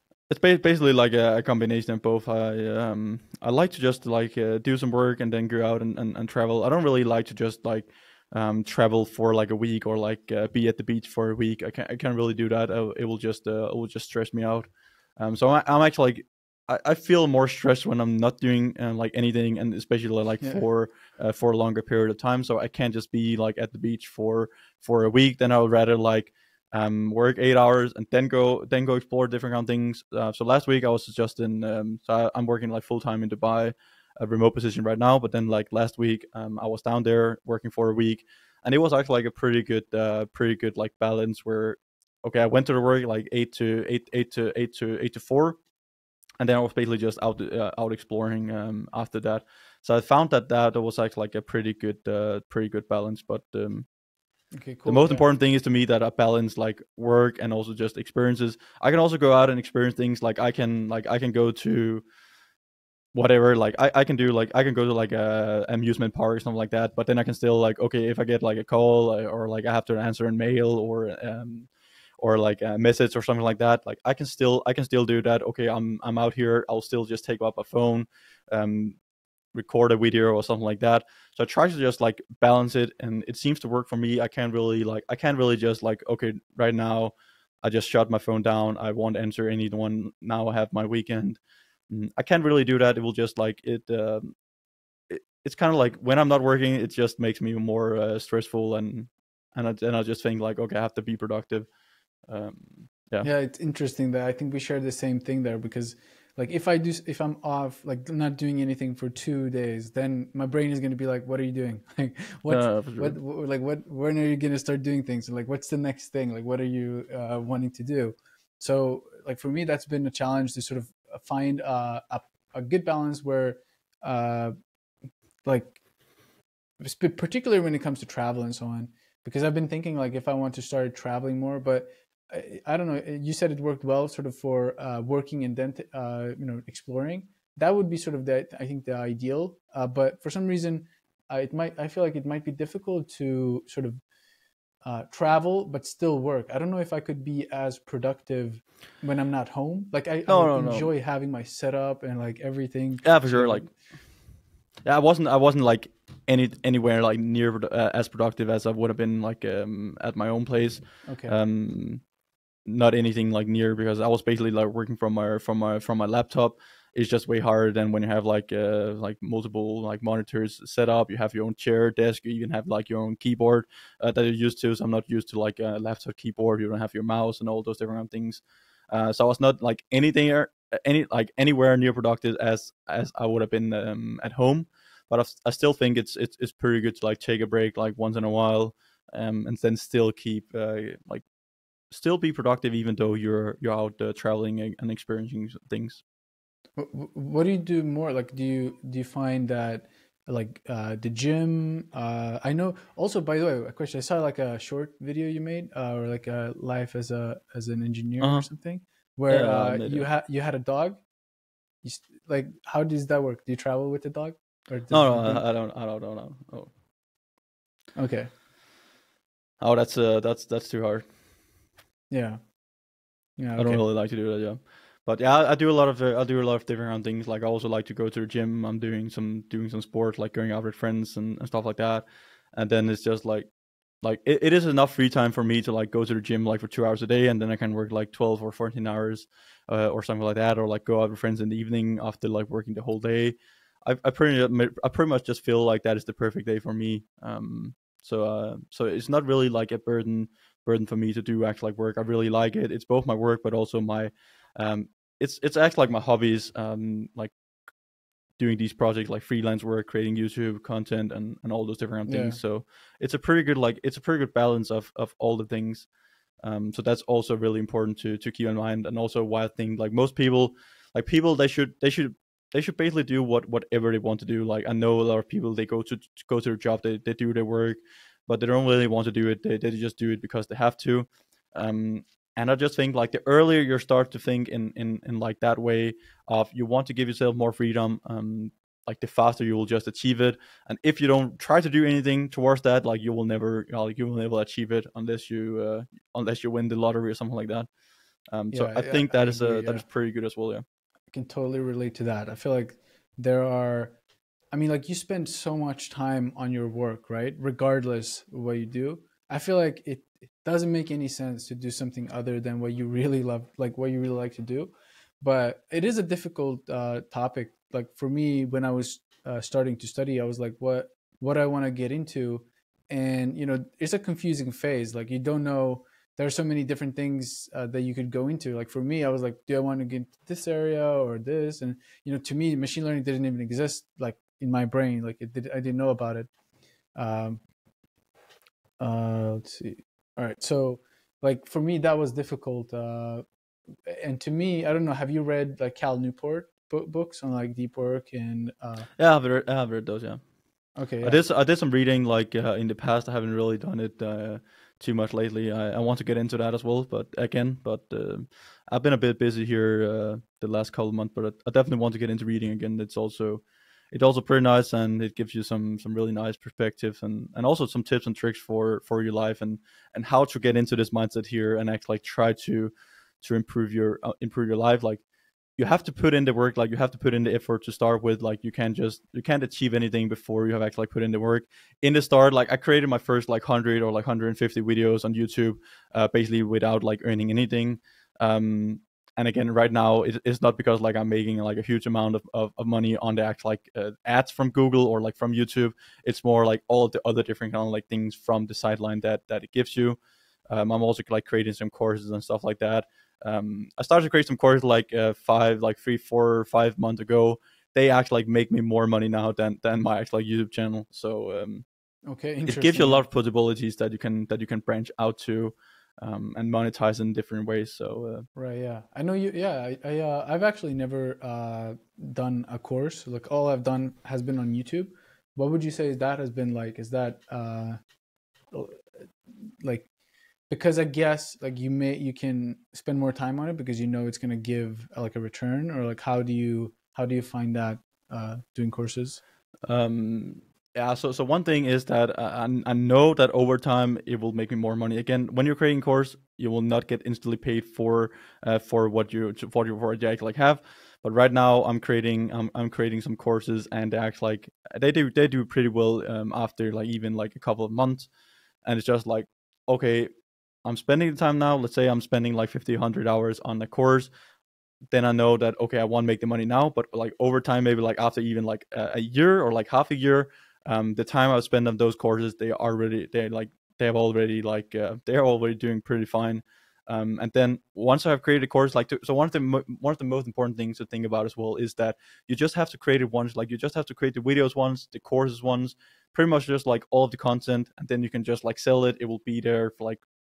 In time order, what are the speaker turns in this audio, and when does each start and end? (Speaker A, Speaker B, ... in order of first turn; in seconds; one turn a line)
Speaker A: 0.3-45.6
Speaker A: 46.4-53.9
Speaker B: 54.5-55.3
Speaker A: 54.9-62.0
Speaker A: 63.1-71.7
Speaker A: 72.2-79.0
Speaker A: 79.5-91.4
Speaker A: 91.9-94.3
Speaker A: 95.1-101.7
Speaker A: 102.3-103.3
Speaker B: 103.2-124.5
Speaker A: 112.5-113.2
Speaker B: 125.5-125.8
Speaker B: 126.8-144.0
Speaker B: 144.8-153.7
Speaker A: 150.3-150.9
Speaker A: 153.0-153.7
Speaker A: 154.8-162.0
Speaker B: 161.1-161.3
Speaker A: 162.7-191.2
Speaker A: 191.9-196.0
Speaker B: 196.8-211.0
Speaker A: 208.2-208.5
Speaker A: 209.3-210.1
Speaker B: 211.8-215.4
Speaker A: 214.9-216.7
Speaker B: 218.0-218.3
Speaker A: 219.6-221.1
Speaker B: 222.1-222.4
Speaker B: 223.4-223.8
Speaker A: 223.6-233.5
Speaker A: 234.0-257.3
Speaker A: 258.4-265.9
Speaker B: 262.1-262.4
Speaker A: 266.4-297.7
Speaker A: 298.3-300.6
Speaker B: 298.5-299.8
Speaker B: 301.1-304.0
Speaker B: 304.5-336.3
Speaker B: 337.0-337.4
Speaker B: 338.8-343.2
Speaker B: 343.9-348.9
Speaker A: 349.0-350.2
Speaker B: 350.8-351.2
Speaker A: 351.0-375.0
Speaker A: 375.6-400.0
Speaker A: 400.5-411.7
Speaker B: 412.1-413.0
Speaker A: 412.5-418.3
Speaker B: 418.4-427.8
Speaker B: 428.5-428.9
Speaker B: 429.6-429.9
Speaker B: 430.5-439.2
Speaker A: 439.7-458.1
Speaker A: 458.6-460.1
Speaker A: 460.6-464.1
Speaker A: 464.9-490.0